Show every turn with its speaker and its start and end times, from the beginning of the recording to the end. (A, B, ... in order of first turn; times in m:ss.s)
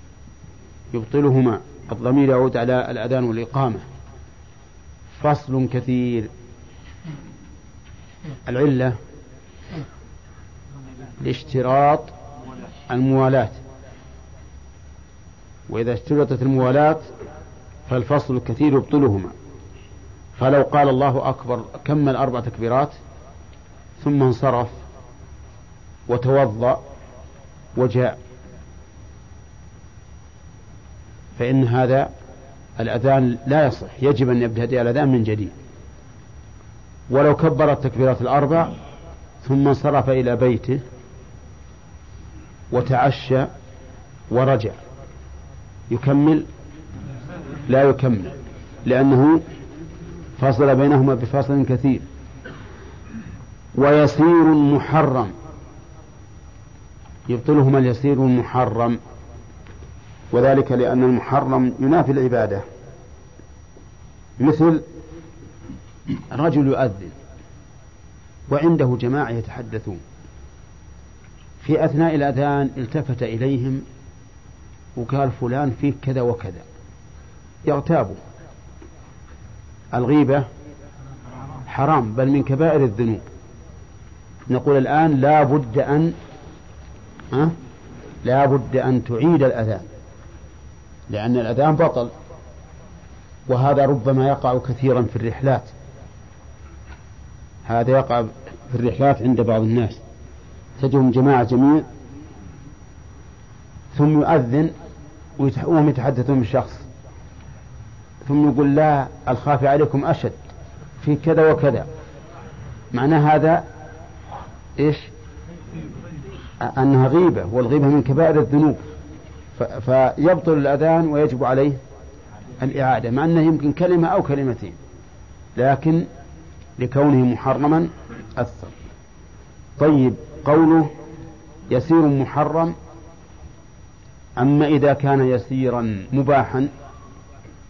0:00.9-0:03.8 A
0:05.2-0:06.3 A
0:08.4-0:09.0 A
0:11.2-0:12.1 A
0:12.9-0:13.6 A
0:15.7-0:17.1 A
0:17.9-0:19.3 A
0:20.4-0:23.0 A
0:24.0-0:24.8 A
0:26.1-0:26.8 A
0:27.8-0:28.2 A
0:31.4-0:32.1 A
0:32.8-0:35.5 A
0:37.1-0:38.8 A
0:39.4-0:40.8 A
0:42.7-0:43.5 A
0:44.3-0:44.8 A
0:45.9-0:46.5 A
0:47.7-0:49.4 A
0:50.4-0:52.0 A
0:53.7-0:55.3 A
0:57.3-0:59.0 A
1:00.3-1:02.6 A
1:04.4-1:04.8 A
1:06.3-1:07.1 A
1:08.5-1:10.0 A
1:11.6-1:13.8 A
1:15.0-1:16.6 A
1:17.6-1:18.2 A
1:19.9-1:20.5 A
1:21.7-1:23.2 A
1:24.5-1:26.2 A
1:28.2-1:29.9 A
1:31.1-1:32.1 A
1:33.5-1:35.7 A
1:37.6-1:40.0 A
1:40.8-1:41.8 A
1:43.9-1:44.7 A
1:45.4-1:46.8 A
1:48.2-1:50.4 A
1:51.0-1:51.9 A
1:52.9-1:53.6 A
1:54.8-1:55.1 A
1:56.6-1:58.8 A
1:59.5-2:01.8 A
2:02.6-2:04.8 A
2:05.6-2:06.1 A
2:06.8-2:08.7 A
2:09.8-2:10.9 A
2:11.7-2:12.7 A
2:14.4-2:16.7 A